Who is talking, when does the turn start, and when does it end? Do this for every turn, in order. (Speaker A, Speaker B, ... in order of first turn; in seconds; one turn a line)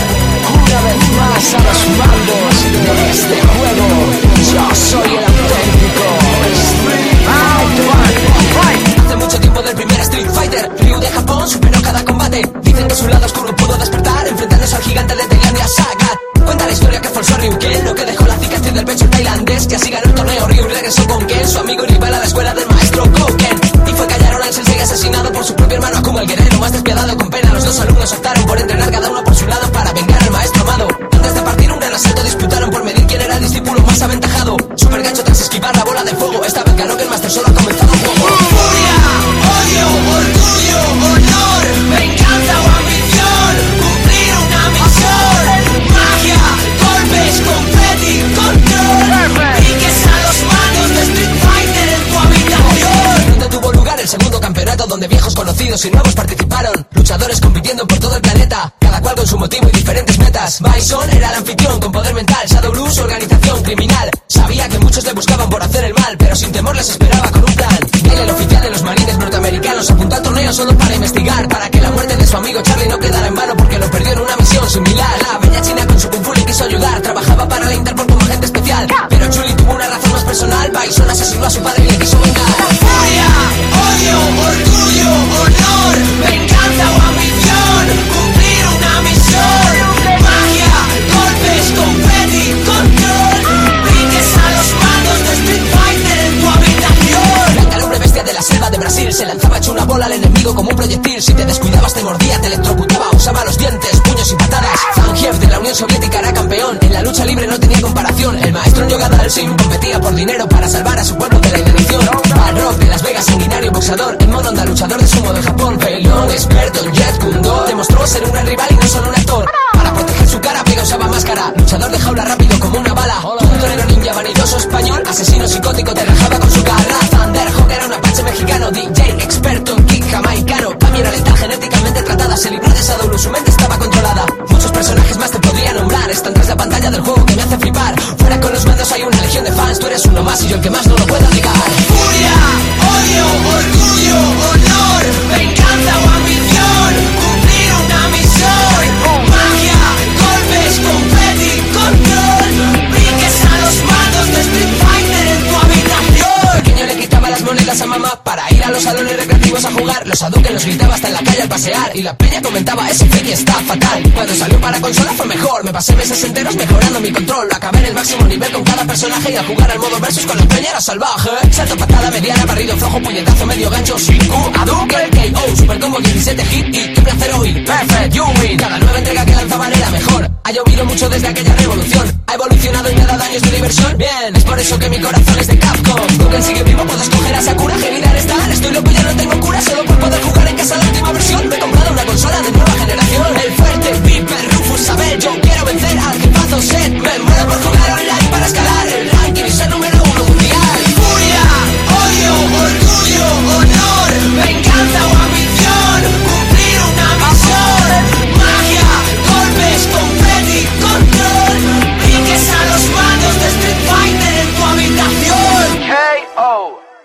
Speaker A: 0.4-216.8